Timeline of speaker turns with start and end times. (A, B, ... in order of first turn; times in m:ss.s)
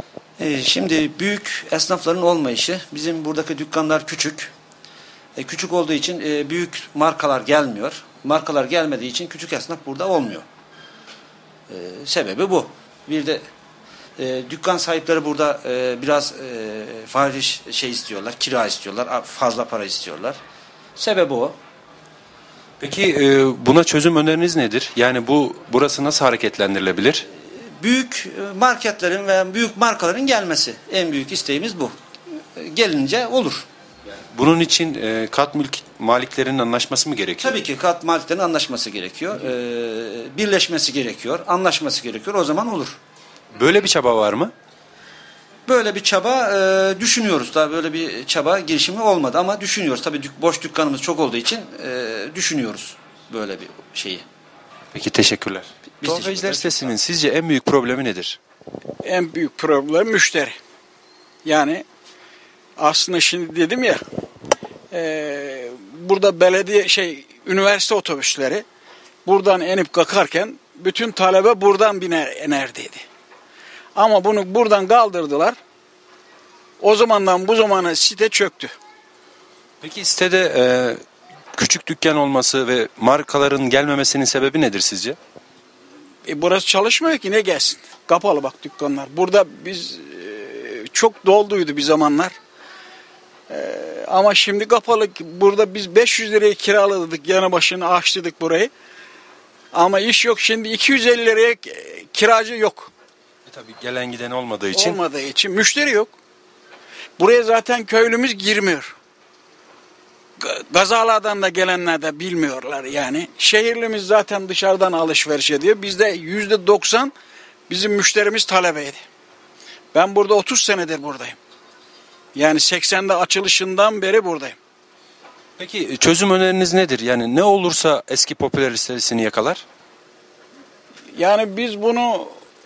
0:00.4-0:04.5 A
0:05.4-0:10.5 A
0:11.7-0:13.4 A
0:14.2-0:20.4 A
0:21.0-0:21.6 A
0:22.8-0:27.2 B
0:27.3-0:32.0 A
0:32.6-0:33.7 A
0:34.3-0:37.6 B
0:37.4-0:43.0 A
0:43.6-0:44.5 B
0:45.7-0:54.3 A
0:54.9-0:58.4 B
0:56.0-0:56.9 A
0:59.0-1:00.6 C
1:01.4-1:01.8 C
1:02.8-1:04.0 C
1:04.9-1:08.6 C
1:09.3-1:13.0 C
1:14.0-1:15.6 C
1:16.8-1:18.7 C
1:19.8-1:21.0 B
1:21.6-1:25.2 B
1:26.3-1:32.4 C
1:33.5-1:38.7 C
1:39.7-1:42.9 C
1:43.5-1:45.0 B
1:44.7-1:46.1 C
1:47.2-1:48.9 C
1:50.4-1:57.1 C
1:57.7-1:59.0 C
1:59.9-2:01.4 C
2:02.4-2:04.6 C
2:05.6-2:09.6 B
2:11.1-2:12.4 C